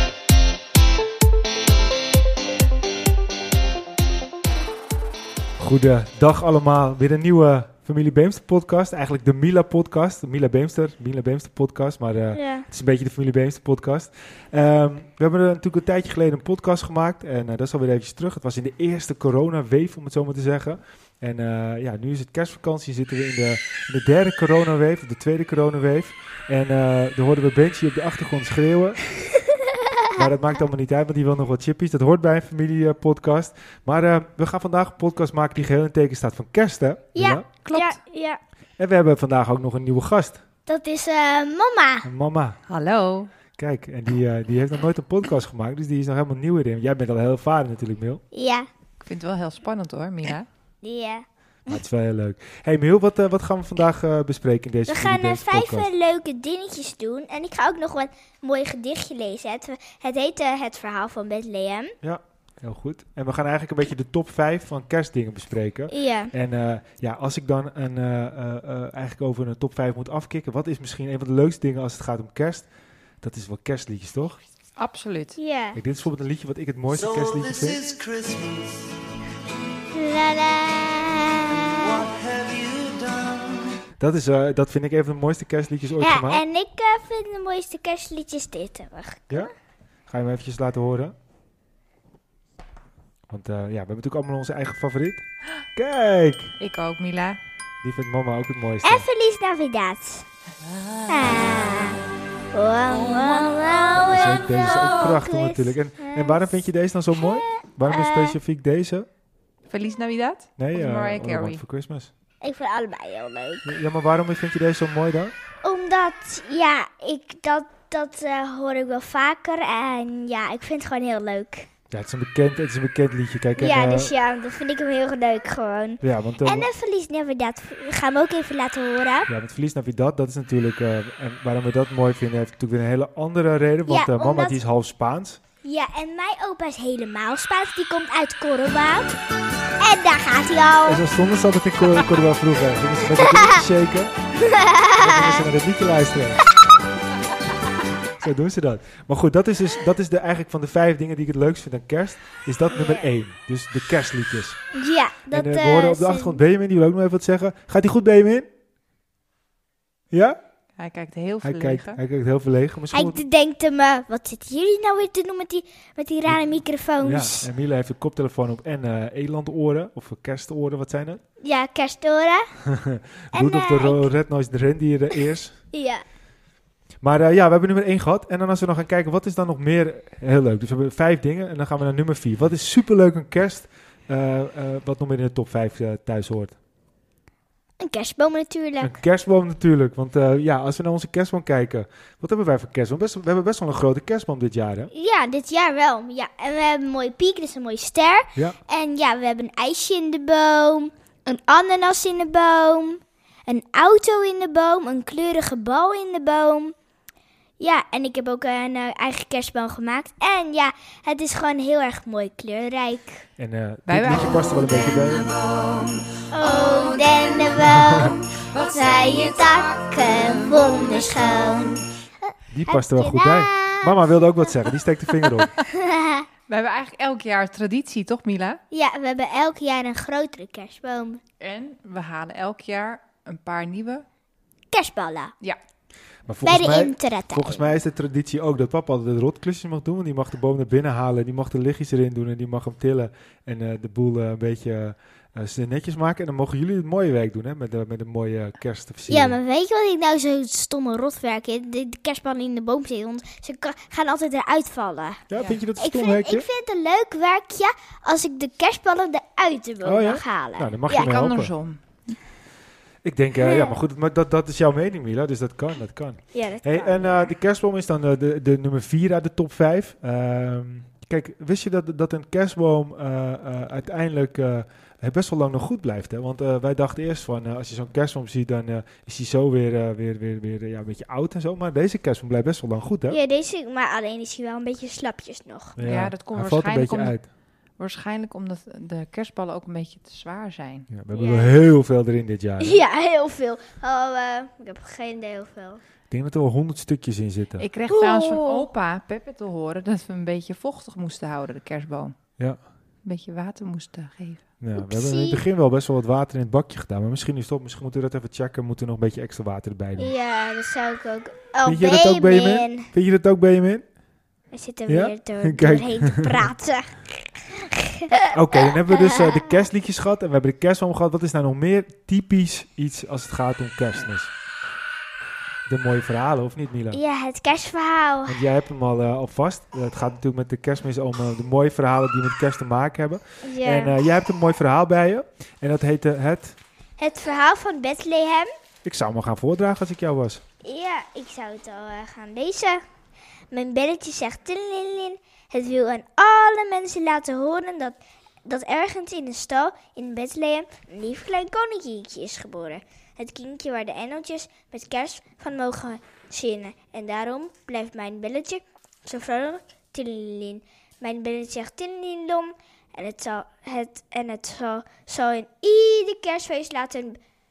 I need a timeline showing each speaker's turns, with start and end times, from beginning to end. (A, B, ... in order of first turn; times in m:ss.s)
0:05.6-0:29.0 A
0:12.3-0:12.7 B
0:29.5-0:30.2 B
0:30.2-0:37.5 A
0:37.1-0:38.4 B
0:37.6-0:38.0 C
0:38.8-0:40.4 A
0:40.7-0:42.1 B
0:42.0-0:42.6 A
0:42.7-0:43.3 C
0:43.6-0:48.2 A
0:48.3-0:48.7 B
0:49.0-0:50.5 C
0:50.8-0:51.8 B
0:51.7-0:55.9 A
0:54.9-1:01.9 B
1:02.0-1:12.7 A
1:05.9-1:06.3 B
1:13.2-1:14.4 A
1:14.8-1:15.4 C
1:15.4-1:15.8 B
1:15.8-1:18.0 A
1:17.4-1:18.8 D
1:19.9-1:22.1 B
1:21.6-1:23.8 D
1:24.0-1:26.4 A
1:26.0-1:29.5 B
1:30.1-1:31.2 A
1:33.3-1:35.2 A
1:35.8-1:36.6 A
1:36.6-1:37.4 C
1:37.8-1:39.1 A
1:38.8-1:40.3 B
1:41.1-1:42.0 B
1:42.5-1:46.5 B
1:43.9-1:49.1 A
1:47.1-1:48.4 B
1:49.7-1:51.6 C
1:50.6-1:52.1 A
1:52.4-1:53.8 B
1:53.6-1:55.3 A
1:55.6-2:01.7 B
2:01.9-2:04.1 A
2:03.6-2:09.3 B
2:06.0-2:06.7 A
2:09.3-2:15.4 A
2:13.9-2:14.6 B
2:15.6-2:19.2 B
2:19.8-2:21.0 B
2:20.8-2:24.1 A
2:23.2-2:23.6 B
2:24.4-2:25.5 B
2:25.0-2:26.4 A
2:28.2-2:34.6 A
2:32.7-2:33.1 B
2:34.7-2:36.4 B
2:35.3-2:38.5 A
2:40.1-2:40.4 A
2:40.8-2:42.0 C
2:41.4-2:43.2 A
2:42.9-2:47.5 B
2:47.0-2:51.2 A
2:51.4-2:52.4 B
2:52.7-2:55.5 A
2:53.3-2:54.1 B
2:55.7-2:56.0 B
2:57.0-3:06.6 A
3:07.8-3:09.0 B
3:08.8-3:14.9 A
3:14.9-3:26.7 B
3:27.6-3:33.2 B
3:33.4-3:35.3 A
3:33.9-3:34.6 C
3:36.3-3:44.0 B
3:42.5-3:45.5 A
3:45.6-3:46.3 B
3:46.5-3:48.6 C
3:48.7-3:51.2 B
3:51.4-3:54.0 C
3:54.7-3:55.3 B
3:56.3-4:09.4 A
3:56.4-3:57.7 B
4:09.1-4:15.2 B
4:15.3-4:16.5 A
4:15.3-4:15.6 C
4:15.8-4:21.1 B
4:19.8-4:21.5 A
4:20.9-4:22.2 C
4:23.0-4:43.2 A
4:23.4-4:23.8 B
4:26.3-4:27.3 B
4:43.1-4:45.8 B
4:45.8-4:47.2 A
4:45.8-4:50.9 C
4:50.9-4:52.8 A
4:51.1-4:51.5 B
4:52.6-4:55.8 B
4:56.1-4:57.7 A
4:57.6-5:02.2 C
4:57.9-4:58.7 B
5:03.0-5:04.4 C
5:04.6-5:10.1 A
5:04.8-5:05.4 B
5:10.0-5:12.9 B
5:11.6-5:13.8 A
5:14.5-5:18.2 B
5:14.9-5:16.5 A
5:18.3-5:24.3 A
5:18.8-5:19.6 B
5:25.7-5:27.0 A
5:26.9-5:28.4 B
5:28.3-5:36.6 A
5:33.4-5:34.0 B
5:37.0-5:38.5 B
5:38.8-5:40.4 A
5:40.6-5:42.8 B
5:43.5-6:07.2 B